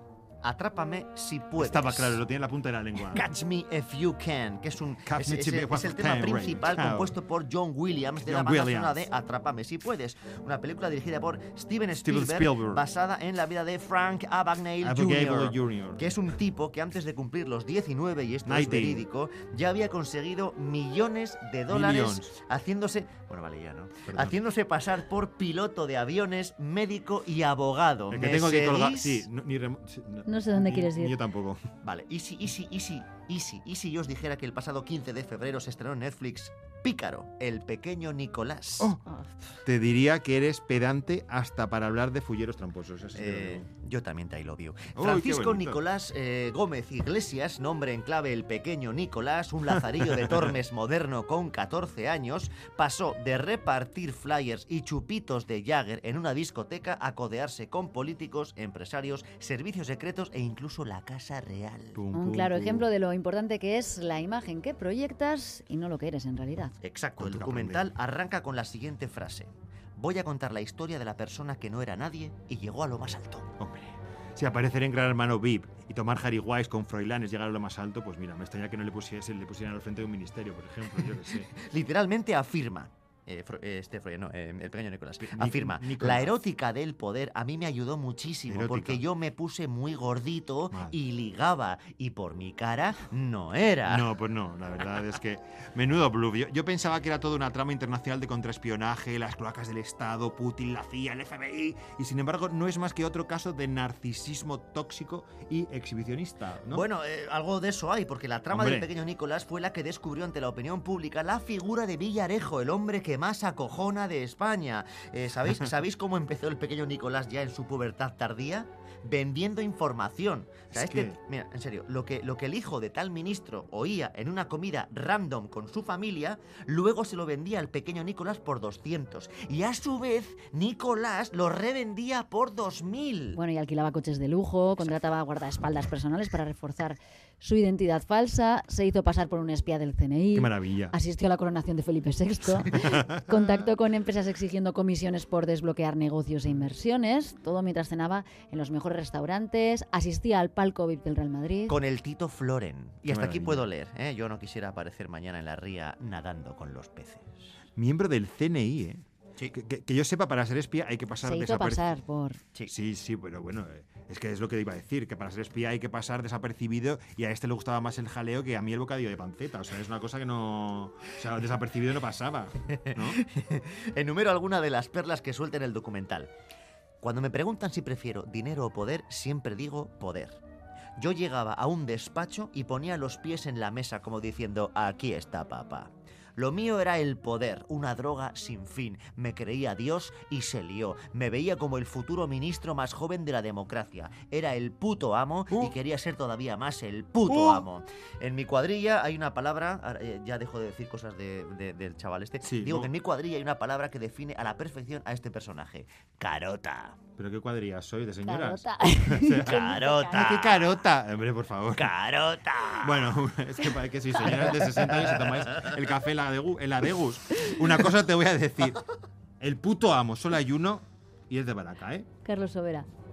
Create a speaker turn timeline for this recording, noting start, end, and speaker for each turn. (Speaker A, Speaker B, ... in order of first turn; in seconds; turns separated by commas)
Speaker A: 0.4-2.2, Speaker B: 1.6-3.3, Speaker A: 3.1-29.3, Speaker B: 5.1-7.2, Speaker B: 8.2-9.1, Speaker B: 12.0-12.8, Speaker B: 14.8-16.1, Speaker B: 18.4-19.1, Speaker B: 21.7-22.3, Speaker B: 24.1-24.4, Speaker B: 28.1-31.6, Speaker C: 30.3-31.2, Speaker A: 31.8-38.9, Speaker C: 39.1-39.4, Speaker B: 39.6-43.7, Speaker A: 43.2-62.0, Speaker B: 45.0-45.8, Speaker B: 50.2-50.5, Speaker B: 62.0-62.9, Speaker C: 62.1-66.7, Speaker A: 66.8-73.5, Speaker B: 67.2-67.9, Speaker B: 73.6-81.5, Speaker A: 81.5-94.1, Speaker B: 85.2-86.3, Speaker B: 88.5-89.0, Speaker B: 93.9-106.9, Speaker A: 106.7-133.4, Speaker B: 108.5-108.9, Speaker B: 120.7-121.2, Speaker C: 133.3-151.8, Speaker B: 140.3-140.9, Speaker B: 142.7-143.4, Speaker A: 151.7-157.5, Speaker B: 153.1-153.7, Speaker B: 157.8-161.9, Speaker C: 161.2-162.4, Speaker B: 162.7-173.2, Speaker A: 172.8-176.3, Speaker A: 177.0-180.4, Speaker A: 181.0-207.0, Speaker B: 197.3-197.6, Speaker B: 202.4-202.9, Speaker B: 207.2-211.9, Speaker C: 208.2-210.3, Speaker A: 209.4-210.8, Speaker A: 211.8-213.2, Speaker B: 212.8-218.8, Speaker A: 214.3-215.6, Speaker B: 219.4-222.1, Speaker C: 222.2-222.9